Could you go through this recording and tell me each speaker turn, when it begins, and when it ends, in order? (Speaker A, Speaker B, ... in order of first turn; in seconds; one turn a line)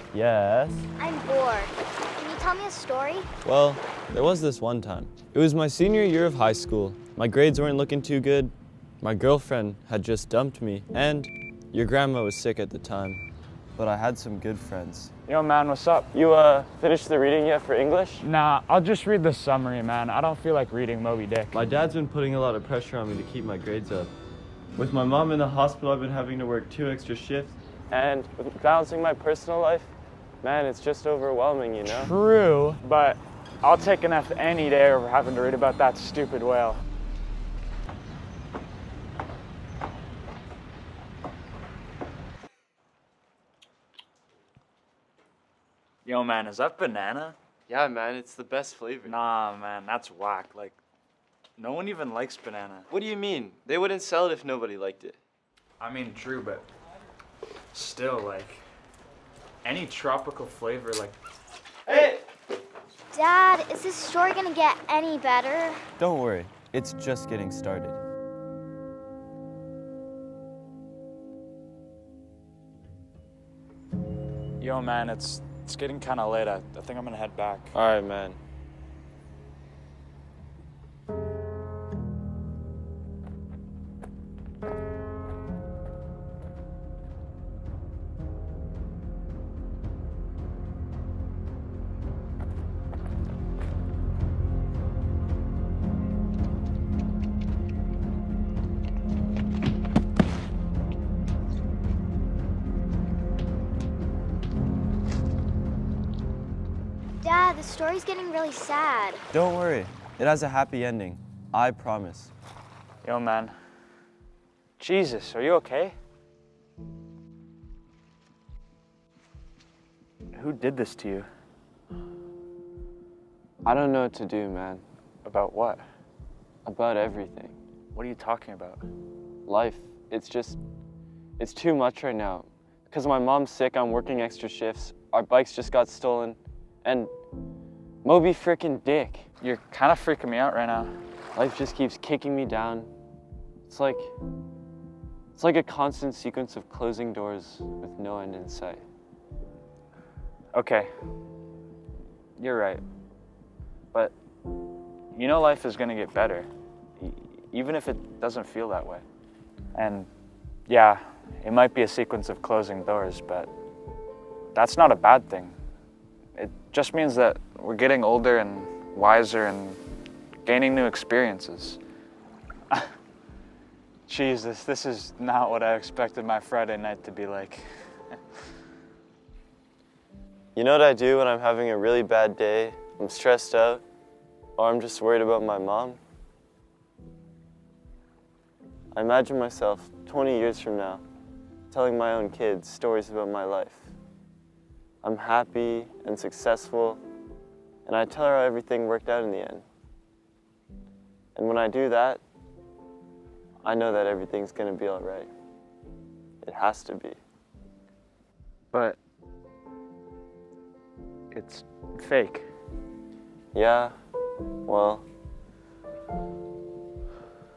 Speaker A: 0.1-0.9
Speaker B: 1.0-3.3
Speaker A: 3.4-13.2
Speaker A: 13.8-15.1
Speaker C: 15.2-16.1
Speaker A: 16.1-18.3
Speaker C: 18.2-21.6
Speaker A: 21.5-24.1
Speaker A: 24.8-32.1
Speaker C: 31.8-36.8
Speaker C: 46.0-47.4
Speaker A: 47.7-49.2
Speaker C: 49.0-50.8
Speaker C: 51.6-52.9
Speaker A: 52.9-55.2
Speaker C: 55.8-56.6
Speaker C: 57.7-58.6
Speaker C: 59.6-61.1
Speaker A: 61.9-62.2
Speaker B: 63.1-65.8
Speaker A: 66.0-68.0
Speaker C: 74.6-77.7
Speaker A: 77.7-78.4
Speaker B: 107.2-109.2
Speaker A: 109.3-112.3
Speaker C: 113.0-113.5
Speaker C: 114.8-116.0
Speaker C: 120.3-121.3
Speaker A: 123.6-124.8
Speaker C: 125.2-125.8
Speaker A: 126.6-127.6
Speaker C: 127.9-128.8
Speaker A: 129.4-130.6
Speaker A: 131.4-137.1
Speaker A: 138.0-139.3
Speaker C: 139.4-140.9
Speaker A: 141.3-142.9
Speaker A: 143.7-144.1
Speaker A: 145.3-148.8
Speaker C: 150.5-150.9
Speaker C: 152.4-152.8
Speaker C: 155.1-156.5
Speaker C: 157.0-159.0
Speaker C: 159.7-160.1
Speaker C: 160.7-163.5
Speaker C: 164.5-165.5
Speaker C: 166.3-169.8
Speaker C: 170.4-171.8
Speaker C: 174.1-177.7
Speaker A: 180.5-183.8
Speaker A: 184.6-186.0
Speaker A: 188.9-191.0
Speaker A: 191.7-193.9
Speaker A: 195.0-197.0
Speaker A: 197.8-199.6
Speaker A: 201.3-202.2
Speaker A: 203.6-205.3
Speaker A: 206.4-207.2
Speaker C: 208.7-209.0
Speaker C: 211.3-212.4
Speaker A: 213.5-213.9
Speaker A: 214.7-215.0